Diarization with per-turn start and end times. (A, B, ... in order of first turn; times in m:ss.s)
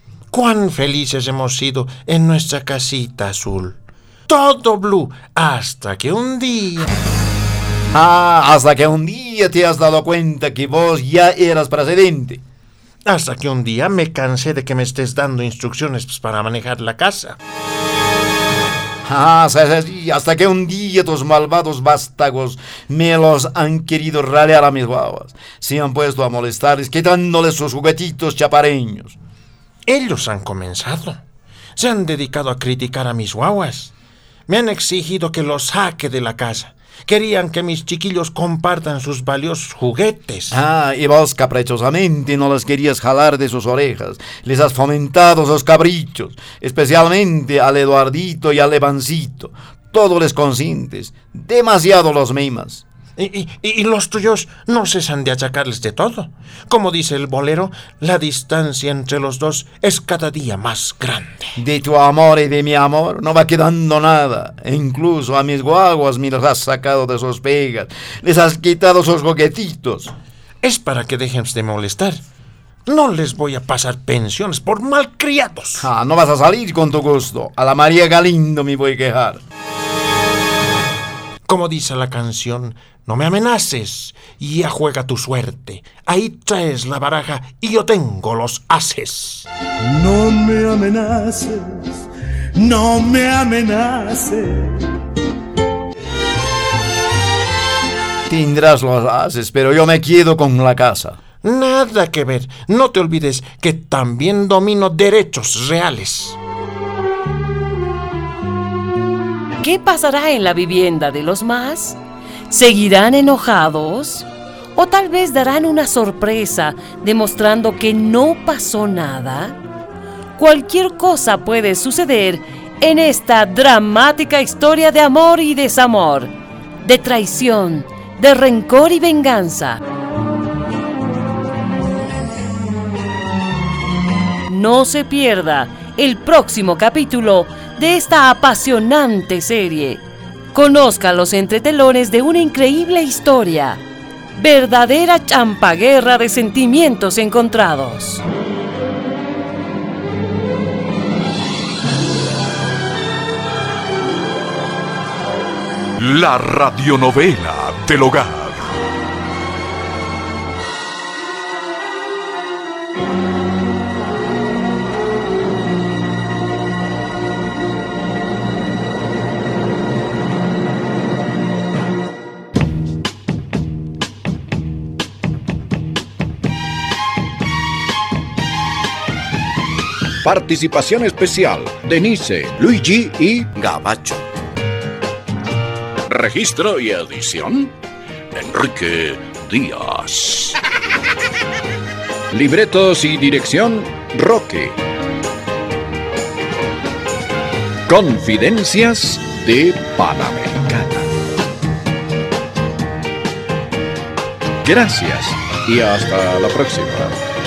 0:00.3-0:06.9 A
0:07.9-0:12.4 B
0:13.0-0:17.4 A
0:19.0-0:29.2 B
0:29.9-0:31.2 A
0:31.8-0:33.9 A
0:34.5-0:40.6 A
0:40.5-0:52.8 B
0:53.2-1:01.6 A
1:01.6-1:10.1 B
1:10.6-1:12.2 A
1:12.9-1:15.9 A
1:15.8-1:19.4 B
1:21.5-1:29.5 A
1:29.9-1:32.0 C
1:32.6-1:34.9 C
1:38.3-1:41.2 B
1:41.4-1:46.4 A
1:49.6-1:52.0 D
1:52.5-1:59.6 D
2:00.4-2:09.8 D
2:14.5-2:23.8 D
2:24.4-2:28.2 D
2:36.0-2:38.7 E
3:00.2-3:04.2 E
3:06.0-3:07.7 E
3:08.3-3:10.6 E
3:12.3-3:14.8 E
3:17.9-3:21.1 E
3:24.6-3:27.2 E